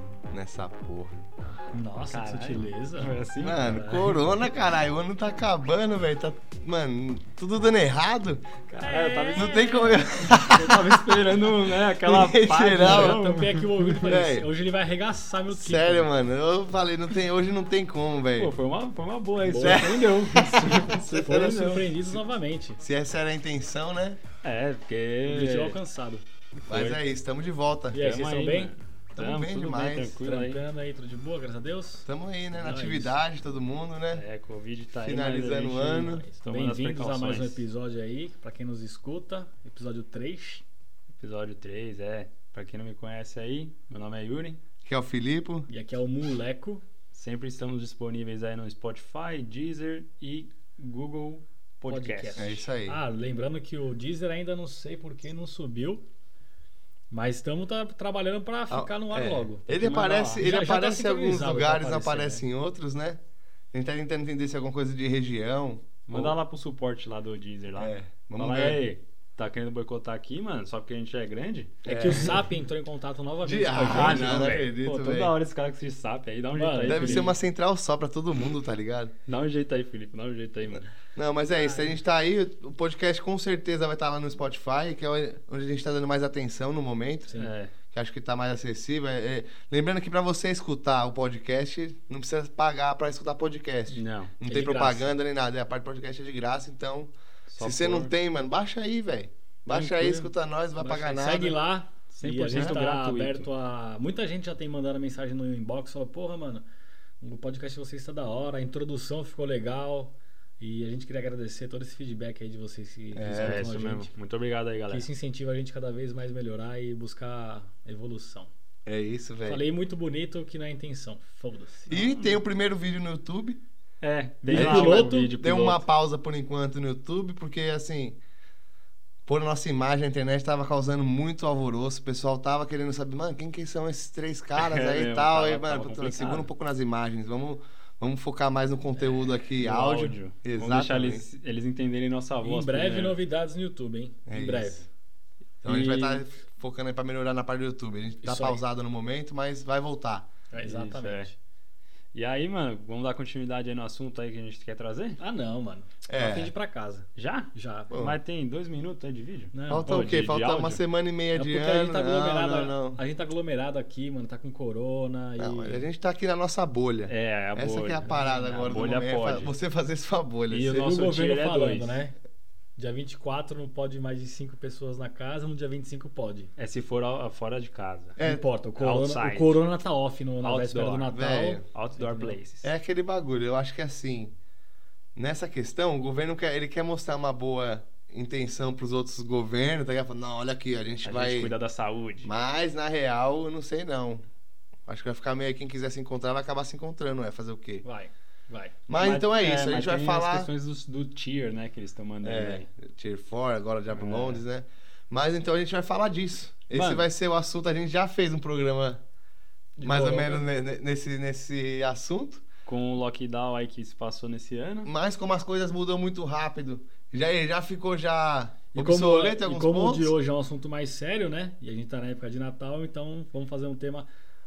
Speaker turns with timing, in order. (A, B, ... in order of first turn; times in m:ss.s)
0:00.3-0:01.1 A
0:01.7-0:03.1 B
0:02.1-0:04.2 C
0:03.4-0:08.4 A
0:08.7-0:14.2 C
0:08.8-0:10.2 B
0:09.3-0:11.4 A
0:12.0-0:13.2 A
0:12.7-0:16.1 B
0:14.0-0:14.5 A
0:15.5-0:18.5 A
0:18.4-0:21.9 C
0:19.4-0:22.8 B
0:19.6-0:21.8 A
0:22.8-0:24.2 A
0:24.4-0:25.8 C
0:25.3-0:26.2 B
0:26.6-0:27.0 C
0:26.7-0:28.0 A
0:27.9-0:28.7 B
0:28.0-0:30.6 C
0:29.2-0:30.2 A
0:30.2-0:33.2 B
0:32.0-0:34.2 A
0:34.1-0:37.6 C
0:35.0-0:36.2 A
0:36.0-0:40.6 B
0:41.2-0:44.6 C
0:44.8-0:45.7 A
0:45.7-0:46.8 B
0:47.1-0:52.6 C
0:51.8-0:56.0 B
0:52.4-0:53.0 A
0:57.1-0:59.6 B
0:58.7-1:03.2 A
0:59.7-1:00.4 C
1:00.4-1:02.4 B
1:03.7-1:06.4 A
1:06.1-1:12.4 C
1:07.8-1:08.8 A
1:11.8-1:12.4 A
1:11.8-1:14.5 B
1:13.4-1:15.3 A
1:13.8-1:17.4 C
1:16.6-1:17.3 B
1:16.9-1:19.1 A
1:19.3-1:20.9 C
1:21.1-1:27.3 A
1:21.6-1:21.9 B
1:27.3-1:27.7 C
1:27.9-1:41.6 A
1:33.9-1:34.3 C
1:34.4-1:35.1 B
1:37.5-1:38.1 C
1:39.7-1:46.6 B
1:42.2-1:43.5 C
1:47.2-1:54.1 B
1:53.1-1:53.6 A
1:53.3-1:55.0 C
1:54.9-1:58.5 B
1:58.8-1:59.6 A
1:59.4-2:02.1 B
2:01.9-2:03.6 A
2:04.0-2:05.8 C
2:04.4-2:05.4 B
2:04.6-2:08.2 A
2:09.2-2:21.2 A
2:14.6-2:16.5 C
2:19.6-2:23.2 C
2:22.4-2:24.8 B
2:24.3-2:24.8 A
2:25.6-2:26.2 C
2:25.6-2:30.3 A
2:28.2-2:28.6 B
2:30.5-2:31.3 B
2:30.6-2:31.3 C
2:32.1-2:35.2 C
2:35.2-2:37.9 B
2:36.1-2:36.5 A
2:37.2-2:40.8 C
2:37.9-2:38.2 A
2:39.5-2:39.9 B
2:39.7-2:43.0 A
2:41.3-2:45.8 B
2:45.4-2:50.8 A
2:47.1-2:49.5 C
2:48.0-2:48.3 B
2:50.5-2:52.0 C
2:50.5-2:52.1 B
2:52.8-2:56.5 B
2:56.6-2:58.2 C
2:58.2-2:58.4 A
2:58.2-3:02.4 B
2:58.8-2:59.6 C
3:00.4-3:01.1 C
3:01.1-3:01.6 A
3:01.7-3:02.7 C
3:02.6-3:04.3 A
3:05.1-3:11.5 A
3:11.0-3:12.3 C
3:12.2-3:14.2 A
3:14.9-3:17.8 A
3:17.8-3:18.7 B
3:18.9-3:20.5 A
3:18.9-3:22.7 C
3:22.2-3:29.0 A
3:24.0-3:24.4 C
3:26.7-3:27.0 B
3:29.8-3:30.4 B
3:29.8-3:32.4 A
3:32.6-3:34.9 C
3:34.8-3:40.1 A
3:38.7-3:44.1 B